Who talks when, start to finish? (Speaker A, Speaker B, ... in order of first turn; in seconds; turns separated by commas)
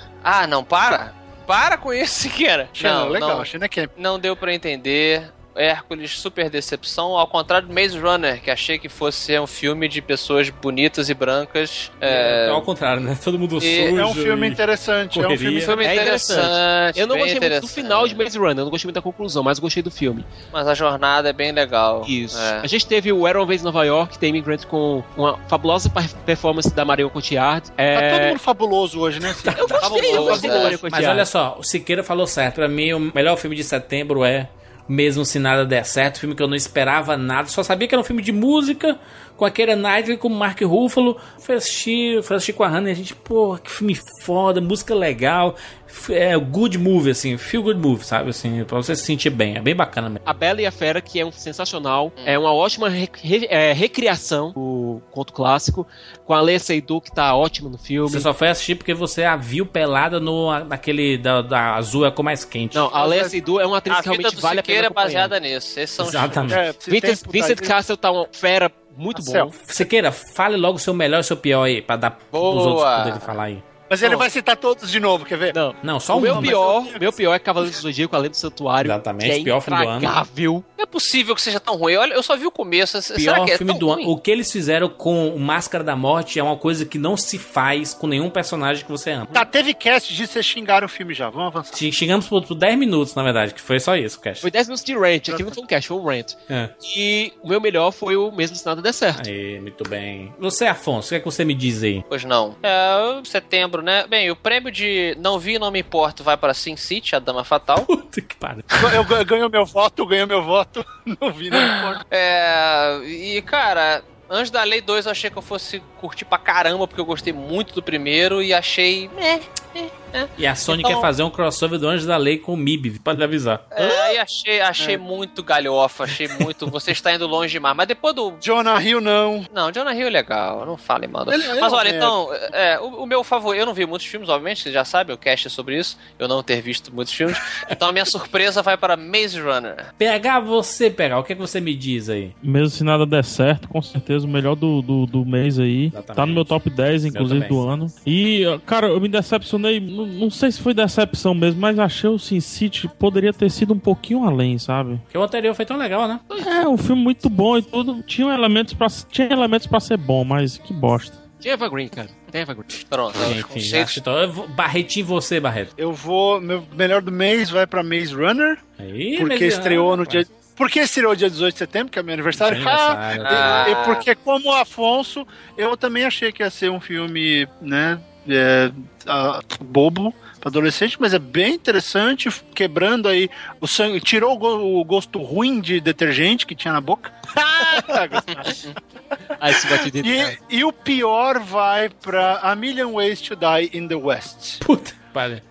Speaker A: 0.2-12.7, Speaker B: 2.8-3.9, Speaker C: 12.1-14.6, Speaker A: 13.6-14.0, Speaker B: 13.9-15.8, Speaker C: 15.1-15.8, Speaker A: 15.6-18.2, Speaker D: 15.8-20.3, Speaker A: 20.5-22.6, Speaker D: 22.1-28.4, Speaker B: 27.9-30.8, Speaker C: 29.2-50.2, Speaker D: 29.5-31.3, Speaker A: 29.8-30.8, Speaker D: 50.2-58.3, Speaker C: 58.1-62.9, Speaker D: 62.7-65.3, Speaker B: 62.9-63.3, Speaker A: 63.9-66.6, Speaker C: 66.0-66.7, Speaker B: 66.5-67.7, Speaker D: 66.9-69.6, Speaker B: 69.1-69.6, Speaker C: 69.7-73.6, Speaker A: 72.3-73.3, Speaker B: 73.9-75.6, Speaker D: 75.5-80.6, Speaker C: 75.8-76.6, Speaker B: 76.2-77.2, Speaker C: 78.8-80.1, Speaker A: 80.8-84.1, Speaker C: 83.2-89.5, Speaker B: 89.3-91.8, Speaker C: 91.7-94.5, Speaker D: 94.4-99.3, Speaker B: 95.3-95.6, Speaker C: 96.5-96.7, Speaker C: 99.1-102.0, Speaker A: 102.1-107.9, Speaker C: 107.8-109.1, Speaker B: 108.8-112.0, Speaker A: 111.5-121.1, Speaker C: 120.4-123.7, Speaker A: 123.7-128.4, Speaker B: 123.8-124.2, Speaker B: 128.4-129.5, Speaker A: 129.5-139.9, Speaker B: 131.3-132.2, Speaker C: 140.0-142.3, Speaker E: 142.4-155.0, Speaker C: 145.9-146.5, Speaker C: 147.1-147.6, Speaker C: 155.1-156.2, Speaker E: 156.3-161.2, Speaker D: 161.4-162.8, Speaker A: 162.9-164.0, Speaker C: 163.1-165.7, Speaker B: 165.8-168.6, Speaker C: 168.8-170.2, Speaker B: 169.2-188.7, Speaker C: 172.4-173.7, Speaker A: 173.2-174.0, Speaker A: 188.4-188.7, Speaker D: 189.4-190.3, Speaker B: 189.5-194.6, Speaker C: 194.6-195.4